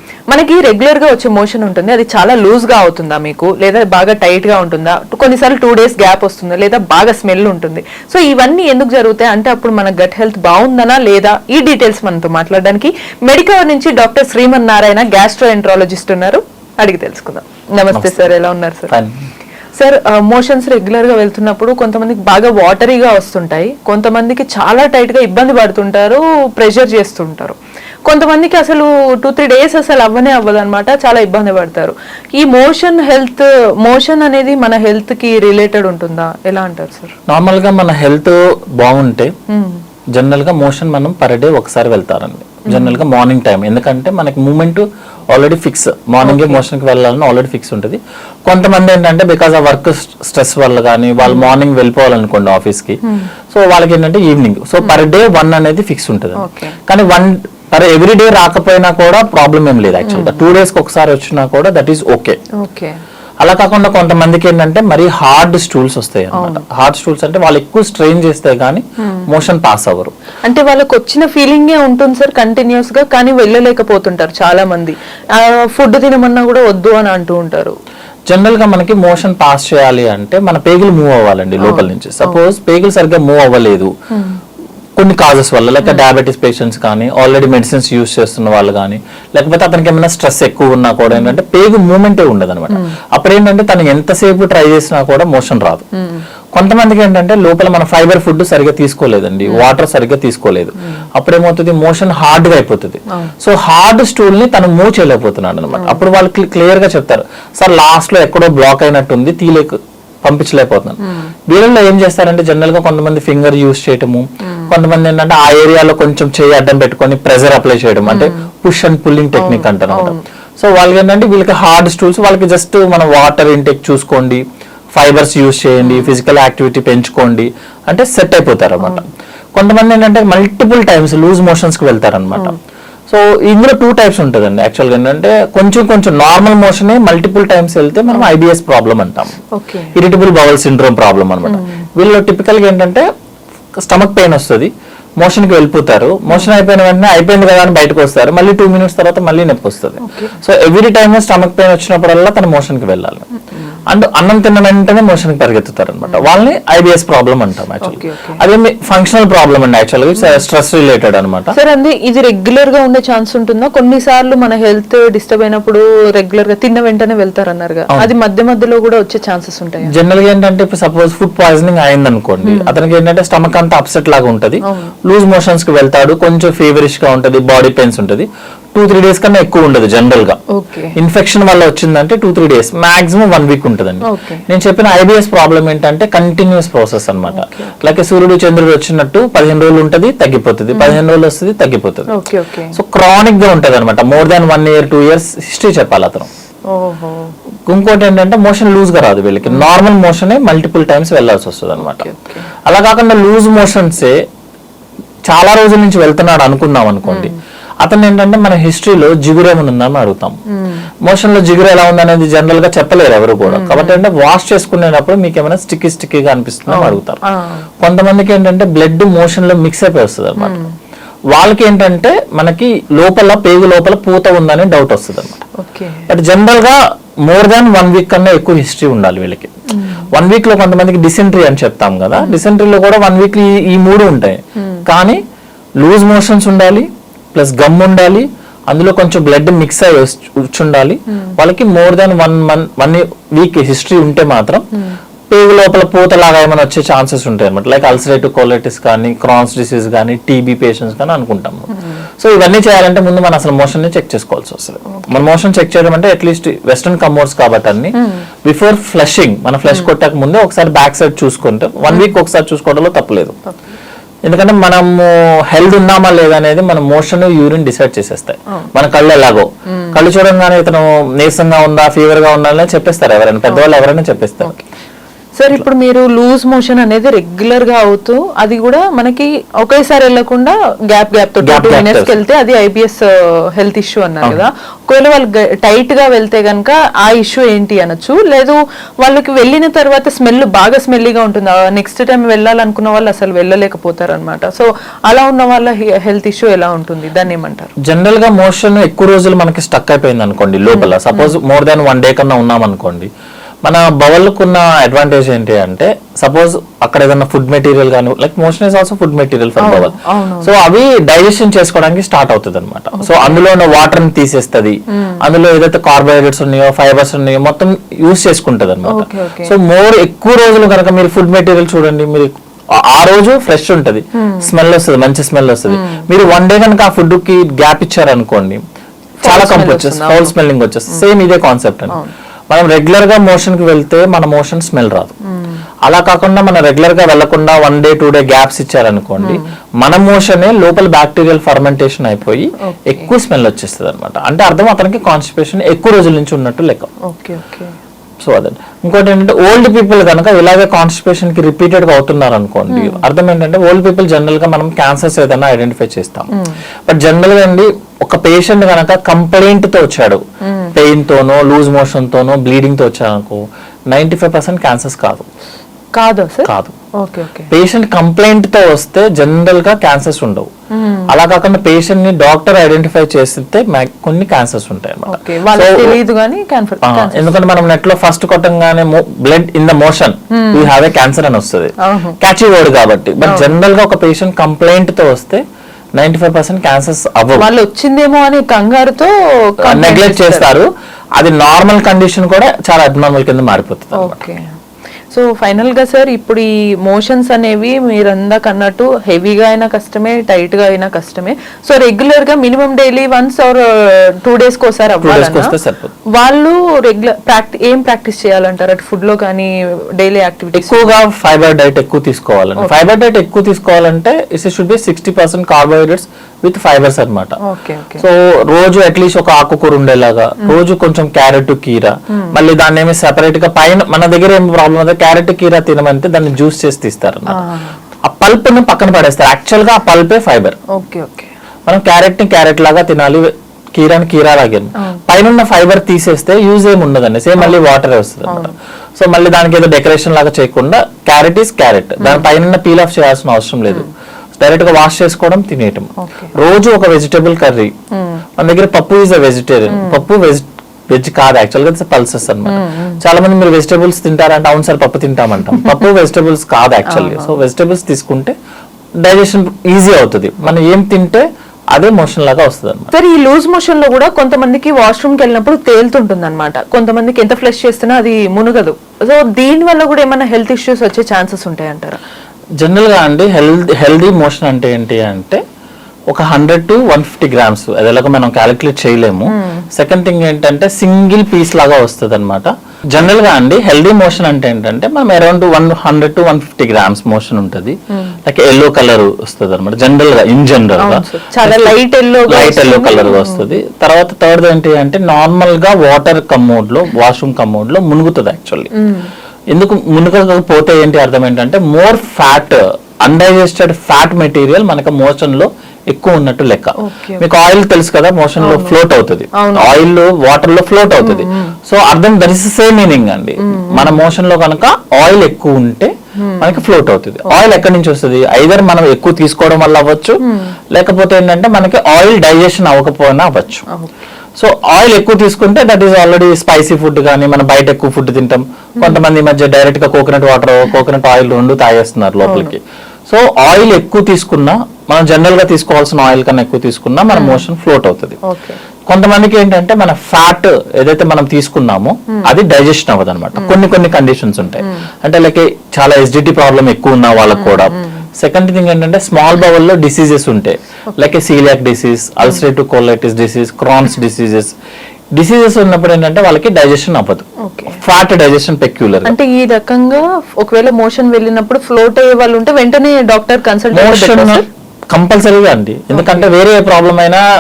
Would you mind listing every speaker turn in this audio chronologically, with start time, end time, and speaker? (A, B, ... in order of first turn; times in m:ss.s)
0:00.3-0:18.9 A
0:17.9-0:18.2 B
0:18.9-0:19.2 B
0:19.8-0:27.6 A
0:28.1-0:37.1 A
0:37.3-0:39.3 B
0:39.5-0:39.8 A
0:40.2-0:53.0 B
0:42.7-0:43.0 A
0:46.2-0:46.6 A
0:51.2-0:51.6 A
0:53.0-0:53.3 A
0:53.5-1:02.4 B
0:56.4-0:56.8 A
1:00.1-1:00.4 A
1:02.6-1:03.0 A
1:03.4-1:10.1 B
1:06.3-1:06.6 A
1:10.4-1:17.8 A
1:18.3-1:23.9 B
1:21.6-1:22.4 A
1:24.1-1:24.4 A
1:25.0-1:35.8 B
1:31.1-1:31.4 A
1:36.0-1:36.2 A
1:36.6-2:04.4 B
1:45.8-1:46.0 A
1:58.1-1:58.4 A
1:59.4-2:00.2 A
2:04.9-2:09.0 B
2:05.8-2:06.1 A
2:09.6-2:12.6 B
2:13.1-2:19.4 B
2:19.6-2:19.9 A
2:20.0-2:23.1 B
2:21.5-2:21.8 A
2:23.8-2:33.3 B
2:30.0-2:30.4 A
2:33.9-2:41.6 B
2:37.8-2:38.4 A
2:41.5-2:49.9 A
2:49.9-3:00.4 B
2:52.4-2:52.8 A
2:54.7-2:54.9 A
3:00.5-3:01.0 A
3:01.0-3:12.1 B
3:04.1-3:04.4 A
3:07.3-3:07.9 A
3:10.7-3:11.0 A
3:12.1-3:12.8 A
3:12.8-3:16.3 B
3:16.7-3:17.3 A
3:17.7-3:22.1 B
3:21.8-3:22.5 A
3:22.7-3:24.2 B
3:25.3-3:30.4 B
3:27.1-3:27.4 A
3:30.5-3:30.9 A
3:31.0-3:37.2 B
3:33.5-3:34.0 A
3:36.7-3:37.7 A
3:37.8-3:40.6 B
3:40.4-3:40.7 A
3:41.3-3:45.4 B
3:45.6-3:46.1 A
3:46.1-3:49.5 B
3:49.8-3:50.1 A
3:50.1-3:55.2 B
3:54.6-3:54.8 A
3:55.8-4:04.6 B
4:05.3-4:23.4 B
4:14.9-4:15.2 A
4:18.0-4:18.2 A
4:23.5-4:23.7 A
4:24.2-4:34.5 B
4:29.7-4:30.0 A
4:35.4-4:57.7 A
4:41.4-4:42.2 B
4:57.8-5:03.1 B
5:00.7-5:01.4 A
5:03.7-5:28.6 B
5:09.6-5:10.5 A
5:12.9-5:13.4 A
5:18.9-5:19.5 A
5:24.2-5:24.5 A
5:25.7-5:26.0 A
5:29.2-5:30.4 A
5:29.2-5:32.0 B
5:32.5-5:35.1 B
5:35.8-5:46.9 B
5:39.2-5:39.5 A
5:42.7-5:43.1 A
5:47.1-5:47.7 A
5:48.2-5:56.3 B
5:52.7-5:53.0 A
5:56.9-6:00.2 B
6:00.4-6:00.7 A
6:00.8-6:05.2 B
6:05.9-6:07.5 A
6:06.4-6:06.8 B
6:07.5-6:10.5 B
6:10.7-6:11.1 A
6:11.1-6:16.0 B
6:15.1-6:17.4 A
6:16.8-6:25.4 B
6:20.3-6:20.7 A
6:21.8-6:22.2 A
6:23.2-6:23.5 A
6:26.0-6:27.5 B
6:27.4-6:30.5 A
6:29.6-6:34.2 B
6:33.9-6:34.4 A
6:35.1-6:45.5 A
6:45.0-6:45.9 B
6:46.1-6:50.9 A
6:50.6-6:57.4 B
6:57.4-6:58.0 A
6:58.0-7:07.4 B
7:07.3-7:07.7 A
7:08.0-7:10.6 B
7:10.8-7:11.3 A
7:11.7-7:27.7 B
7:18.3-7:18.5 A
7:22.0-7:22.3 A
7:26.0-7:26.3 A
7:28.0-7:28.2 A
7:28.4-7:38.4 B
7:29.7-7:30.0 A
7:32.5-7:33.0 A
7:36.9-7:37.4 A
7:39.0-7:42.9 B
7:42.9-7:52.0 A
7:52.6-7:55.4 B
7:56.1-8:18.7 B
7:59.3-7:59.6 A
8:10.8-8:13.5 A
8:18.8-8:19.1 A
8:19.5-8:40.2 B
8:26.8-8:27.2 A
8:28.4-8:28.8 A
8:29.4-8:29.7 A
8:31.0-8:31.5 A
8:33.4-8:34.0 A
8:36.2-8:36.6 A
8:37.3-8:37.6 A
8:40.7-8:43.6 B
8:43.7-8:44.0 A
8:44.4-8:58.2 B
8:52.2-8:52.5 A
8:57.1-8:57.4 A
8:58.2-8:58.6 A
8:58.9-9:14.5 B
9:07.4-9:07.9 A
9:15.1-9:19.1 B
9:17.4-9:17.8 A
9:19.0-9:24.5 A
9:23.7-9:27.2 B
9:25.9-9:26.3 A